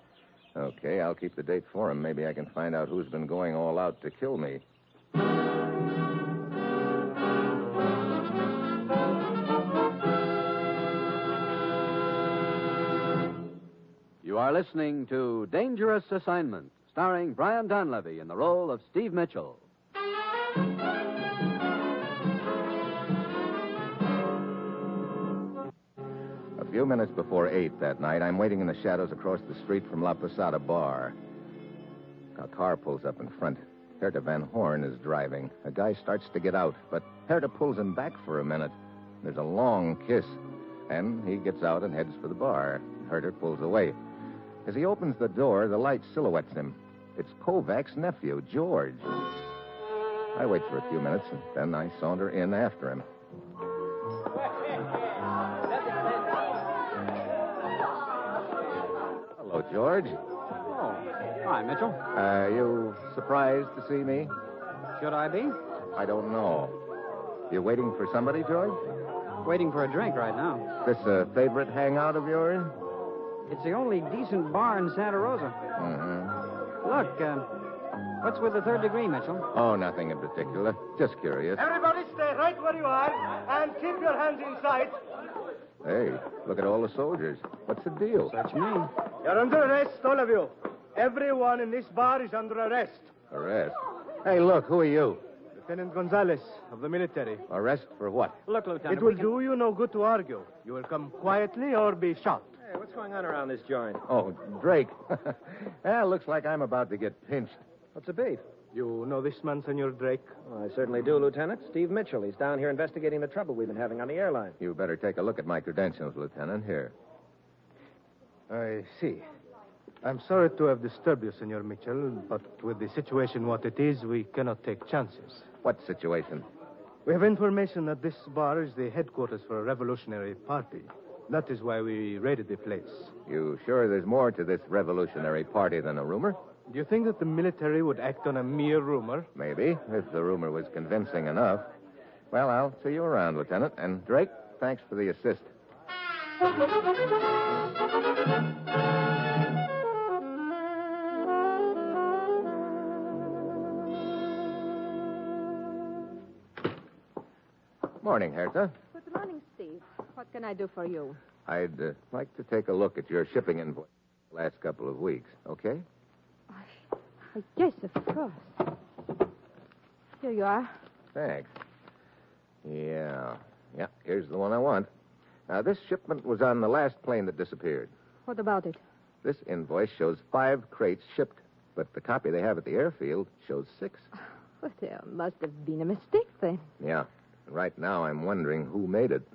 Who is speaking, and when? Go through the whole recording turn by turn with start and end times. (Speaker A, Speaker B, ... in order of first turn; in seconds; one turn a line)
Speaker A: 0.6-4.6
Speaker B: 14.2-19.6
Speaker A: 26.6-31.2
Speaker A: 32.4-44.0
Speaker A: 44.6-49.1
Speaker A: 50.4-53.1
Speaker A: 59.4-60.2
Speaker C: 60.7-62.0
Speaker A: 62.1-64.3
Speaker C: 65.0-65.6
Speaker A: 66.0-66.8
Speaker A: 67.5-68.8
Speaker C: 69.4-70.7
Speaker A: 70.8-72.8
Speaker C: 73.5-75.6
Speaker A: 75.8-76.4
Speaker C: 76.8-77.5
Speaker C: 78.2-79.5
Speaker A: 79.5-81.7
Speaker D: 81.6-85.0
Speaker A: 85.8-88.4
Speaker C: 88.3-88.9
Speaker D: 89.2-93.1
Speaker A: 93.3-95.2
Speaker D: 95.5-97.4
Speaker A: 97.5-98.4
Speaker C: 98.5-99.3
Speaker D: 98.9-102.5
Speaker E: 102.6-104.0
Speaker A: 104.0-107.6
Speaker E: 108.0-108.5
Speaker D: 108.7-110.3
Speaker E: 110.4-114.6
Speaker A: 114.6-116.9
Speaker D: 118.5-119.3
Speaker D: 120.0-125.5
Speaker A: 125.6-126.5
Speaker D: 127.1-133.1
Speaker A: 133.3-136.4
Speaker D: 136.7-139.3
Speaker A: 139.3-141.7
Speaker A: 142.3-145.5
Speaker A: 158.0-158.7
Speaker F: 158.9-161.2
Speaker A: 161.5-165.9
Speaker F: 167.3-168.7
Speaker F: 170.2-170.8
Speaker A: 171.1-171.5
Speaker A: 172.6-174.9
Speaker A: 175.5-177.9
Speaker F: 178.3-178.8
Speaker A: 179.2-184.1
Speaker F: 184.6-186.7
Speaker A: 186.8-189.3